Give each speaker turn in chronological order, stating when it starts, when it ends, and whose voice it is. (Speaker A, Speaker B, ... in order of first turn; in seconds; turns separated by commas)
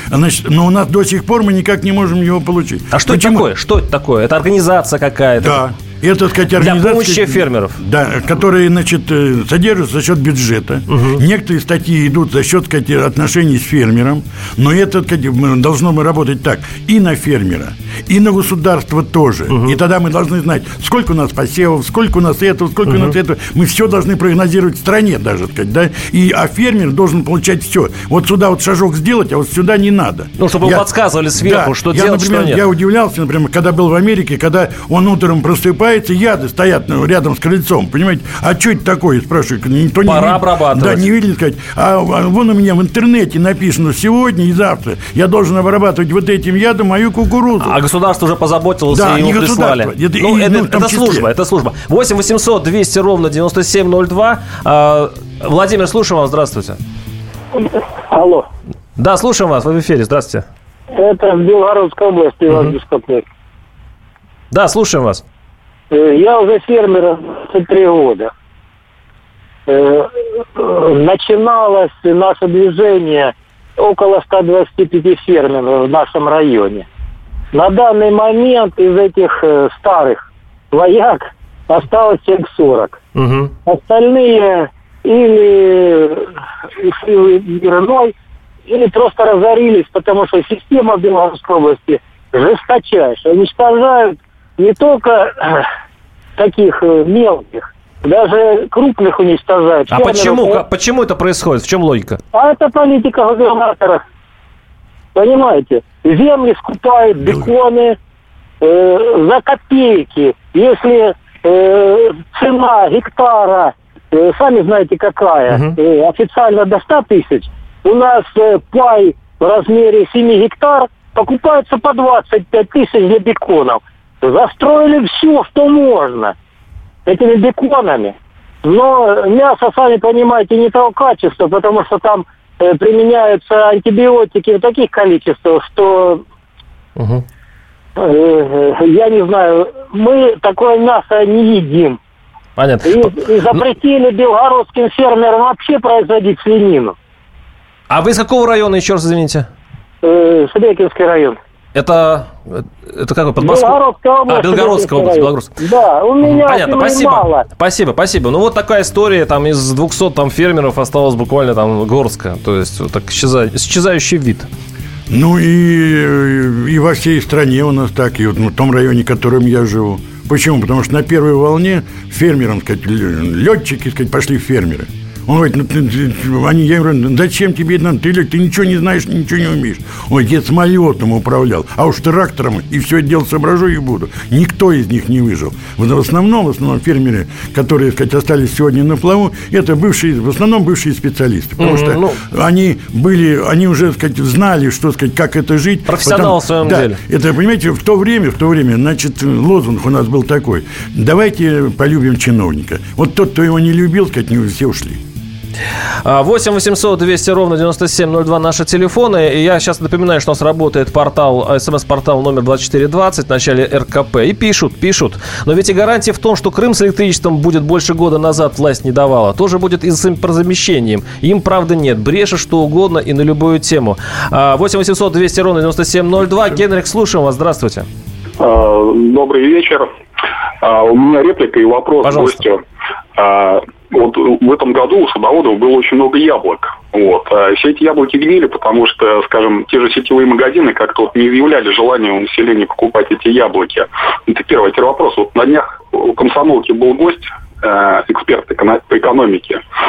Speaker A: 0.1-3.5, Speaker B: 2.9-5.6, Speaker A: 5.4-47.8, Speaker B: 6.6-7.8, Speaker B: 10.9-11.2, Speaker B: 19.5-19.8, Speaker B: 22.9-23.1, Speaker B: 30.4-32.6, Speaker B: 40.0-41.0, Speaker B: 47.6-56.8, Speaker A: 48.9-51.3, Speaker C: 57.6-58.5, Speaker B: 59.0-60.5, Speaker C: 60.9-63.2, Speaker B: 62.5-62.8, Speaker B: 64.5-65.2, Speaker C: 65.9-68.3, Speaker C: 69.7-76.9, Speaker C: 77.5-83.0, Speaker B: 83.2-83.5, Speaker C: 83.7-88.1, Speaker C: 88.7-95.7, Speaker C: 96.4-100.6, Speaker B: 99.9-102.2, Speaker C: 102.3-104.0, Speaker C: 105.2-108.0, Speaker C: 108.6-126.3, Speaker B: 115.5-115.8, Speaker C: 127.0-136.2, Speaker B: 137.0-137.2, Speaker C: 138.0-142.0, Speaker B: 142.6-143.7, Speaker C: 142.8-147.0, Speaker B: 147.9-149.5, Speaker C: 150.0-151.4, Speaker B: 151.8-155.5, Speaker C: 153.4-157.5, Speaker B: 156.2-164.5, Speaker A: 165.1-205.0, Speaker B: 191.6-192.2, Speaker B: 195.9-197.0, Speaker B: 206.1-227.9, Speaker D: 228.4-229.9, Speaker D: 230.6-232.6, Speaker B: 232.0-232.4, Speaker D: 233.2-249.6